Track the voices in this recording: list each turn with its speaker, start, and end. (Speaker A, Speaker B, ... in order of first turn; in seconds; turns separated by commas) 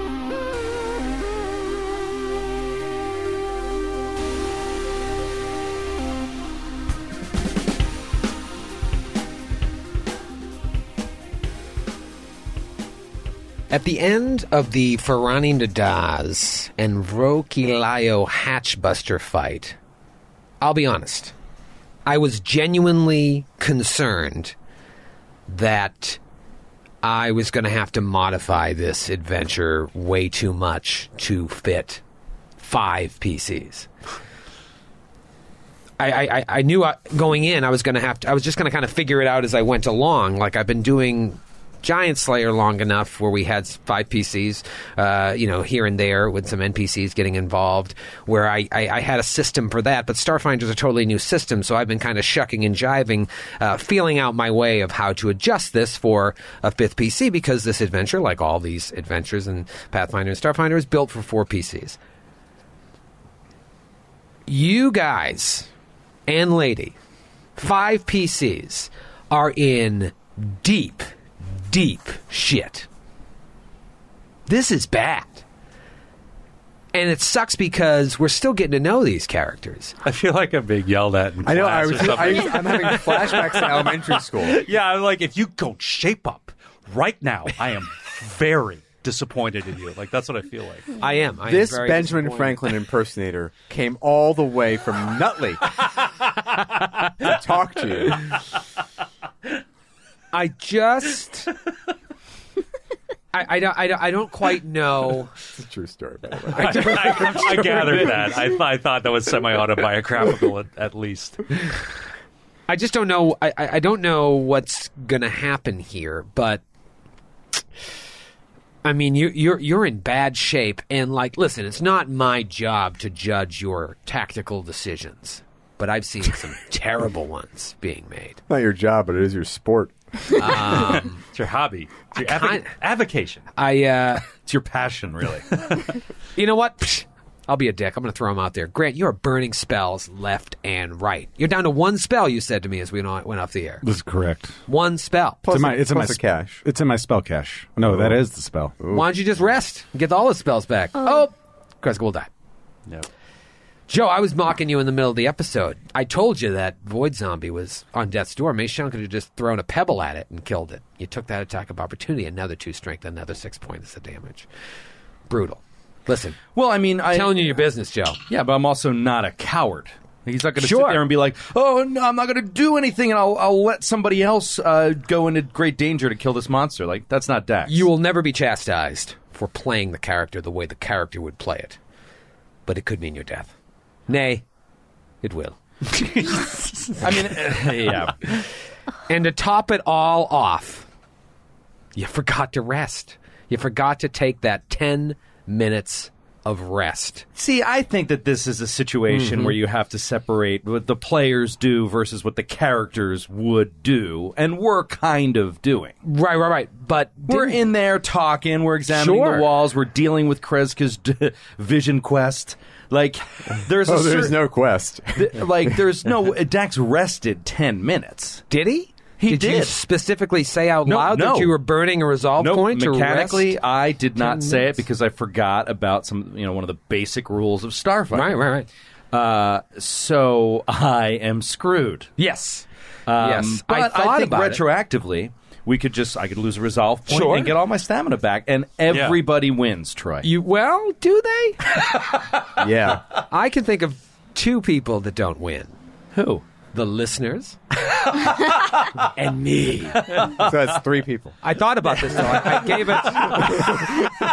Speaker A: 13.7-19.8, Speaker A: 20.6-21.3, Speaker A: 22.1-24.5, Speaker A: 25.5-26.2, Speaker A: 27.0-32.0, Speaker A: 32.6-33.9, Speaker A: 36.0-62.0, Speaker A: 64.5-65.7, Speaker A: 66.3-67.0, Speaker A: 67.6-72.9, Speaker A: 74.5-75.4, Speaker A: 76.9-79.9, Speaker B: 80.0-90.9, Speaker C: 81.4-84.6, Speaker A: 91.0-92.6, Speaker C: 91.4-95.7, Speaker C: 97.2-98.3, Speaker A: 100.3-101.5, Speaker A: 103.3-105.3, Speaker C: 105.5-108.0, Speaker B: 106.5-111.4, Speaker A: 106.7-107.2, Speaker A: 112.7-116.6, Speaker A: 118.8-128.4, Speaker C: 128.5-130.5, Speaker A: 130.3-131.2, Speaker B: 130.6-133.4, Speaker A: 132.1-132.7, Speaker A: 133.6-134.2, Speaker D: 134.3-135.5, Speaker A: 136.3-143.8, Speaker E: 143.8-144.6, Speaker A: 144.7-145.4, Speaker C: 145.4-146.6, Speaker E: 145.5-148.7, Speaker C: 147.8-148.2, Speaker C: 148.8-149.1, Speaker A: 148.9-152.3, Speaker A: 153.9-164.5, Speaker A: 165.3-166.4, Speaker D: 166.5-167.6, Speaker A: 167.1-168.2, Speaker D: 168.3-177.9, Speaker A: 170.6-171.0, Speaker A: 177.7-181.8, Speaker A: 182.7-183.5, Speaker A: 184.1-184.4, Speaker A: 185.2-185.6, Speaker D: 186.4-188.3, Speaker A: 187.0-187.7, Speaker A: 189.1-190.9, Speaker A: 191.9-197.2, Speaker D: 197.3-205.9, Speaker A: 199.1-199.6, Speaker A: 206.0-207.6, Speaker D: 207.3-214.4, Speaker A: 208.9-209.5, Speaker C: 213.8-215.4, Speaker D: 215.1-218.4, Speaker A: 218.5-223.6, Speaker D: 219.2-219.8, Speaker D: 220.8-221.6, Speaker D: 222.4-228.4, Speaker A: 224.1-224.8, Speaker A: 228.1-228.7, Speaker D: 229.1-232.1, Speaker A: 232.2-232.7, Speaker D: 233.1-240.3, Speaker A: 233.2-234.6, Speaker A: 237.1-237.5, Speaker B: 238.9-239.2, Speaker A: 240.2-241.6, Speaker C: 242.6-243.0, Speaker A: 243.2-245.7, Speaker D: 246.1-246.4, Speaker A: 246.7-250.3, Speaker D: 248.8-249.0, Speaker D: 250.0-250.7, Speaker C: 250.3-251.4, Speaker A: 251.4-253.9, Speaker D: 253.2-253.7